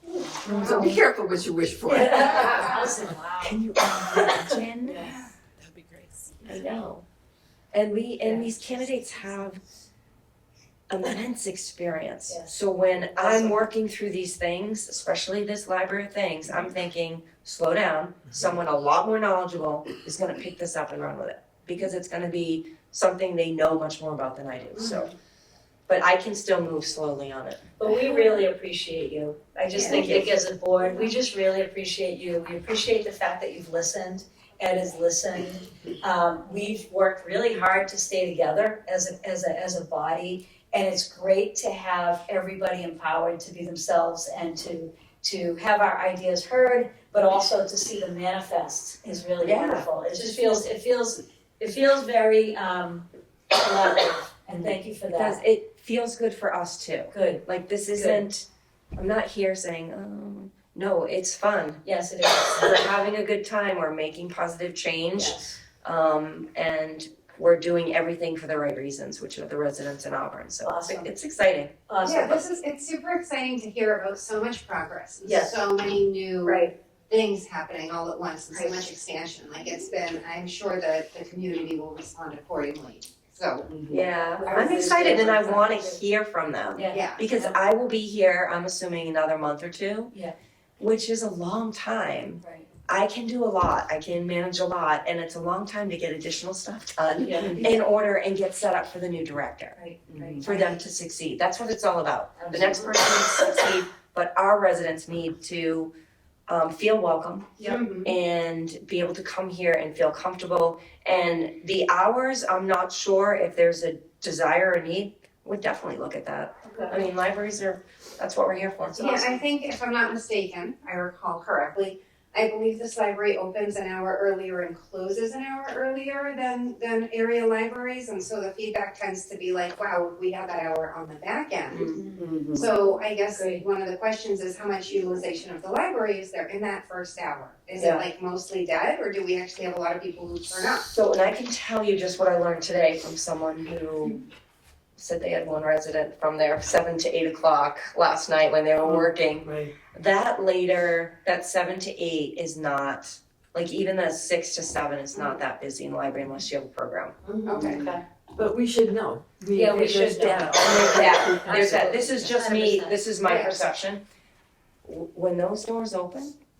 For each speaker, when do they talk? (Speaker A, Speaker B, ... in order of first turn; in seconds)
Speaker A: 0.2-0.9, 1.8-3.7, 4.8-5.2, 8.2-9.3, 12.3-12.6, 13.2-13.6, 27.8-55.4, 57.1-57.4, 58.0-58.2, 61.8-62.9, 65.2-65.6, 70.6-71.1, 71.9-72.4, 75.2-75.6, 76.5-76.7, 78.5-78.9, 84.4-86.0, 86.8-87.6, 92.4-92.7, 97.2-97.8, 99.8-100.7, 102.4-103.0, 118.8-119.4, 131.9-132.4, 133.3-133.6, 157.5-158.0, 159.6-163.0
Speaker B: 0.4-1.0, 2.4-2.8, 24.8-25.1, 29.7-30.2, 72.0-83.8, 84.5-85.0, 86.9-87.2, 107.6-108.1, 119.0-140.9, 155.1-155.4, 157.2-157.9, 163.2-163.6
Speaker C: 0.4-2.8, 3.4-4.6, 148.8-149.7, 157.6-162.3
Speaker D: 4.1-5.2, 6.5-7.0, 7.7-9.6, 10.9-25.1, 25.9-27.8, 29.7-30.3, 49.4-50.5, 54.5-61.8, 62.5-71.7, 83.9-90.1, 90.8-99.8, 100.4-105.9, 106.5-119.1, 131.7-132.0, 137.8-138.1, 140.9-144.2, 145.0-157.2, 160.7-164.0, 164.8-166.3